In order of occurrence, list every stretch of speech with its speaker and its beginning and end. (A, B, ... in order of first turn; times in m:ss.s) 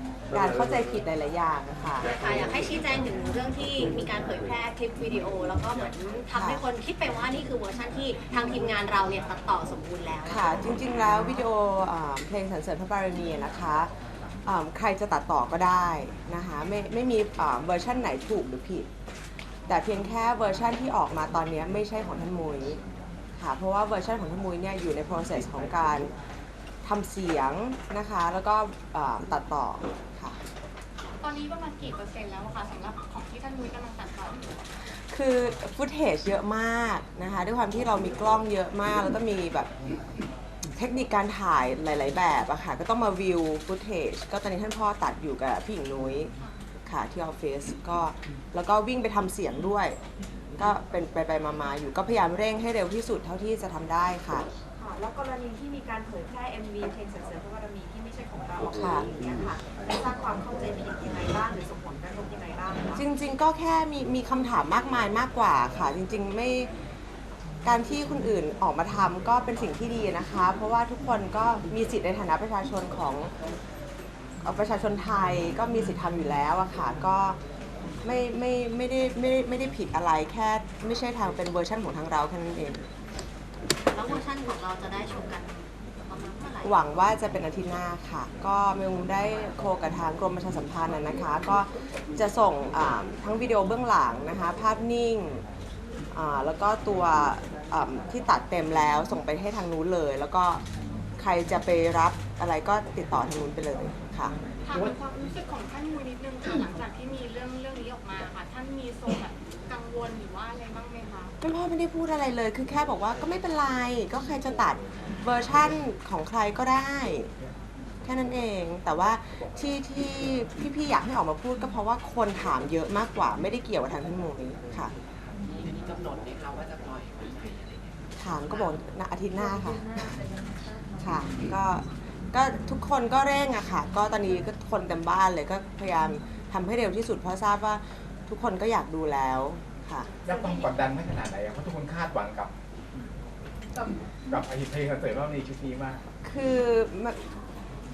0:00.3-0:02.1 A
0:02.1-0:10.7 B
0:06.4-0:06.6 A
0:10.3-0:13.9 A
0:14.4-0:18.9 A
0:19.7-0:22.8 A
0:23.4-0:26.1 A
0:26.8-0:30.4 A
0:31.2-0:34.6 C
0:34.9-0:39.7 A
0:40.8-0:46.3 A
0:46.9-0:50.0 A
0:50.6-0:54.5 A
0:54.8-1:03.0 D
0:58.8-0:59.0 A
1:03.0-1:06.7 A
1:07.6-1:13.3 A
1:14.4-1:17.4 A
1:18.0-1:22.8 A
1:23.9-1:26.8 B
1:26.6-1:35.4 A
1:36.1-1:40.6 A
1:41.2-1:44.3 A
1:44.7-1:51.3 C
1:51.4-1:57.3 A
1:58.0-2:04.9 A
2:05.5-2:08.0 E
2:08.2-2:10.1 A
2:11.0-2:20.1 A
2:20.2-2:22.5 F
2:24.3-2:26.0 F
2:24.6-2:25.7 E
2:26.2-2:27.2 A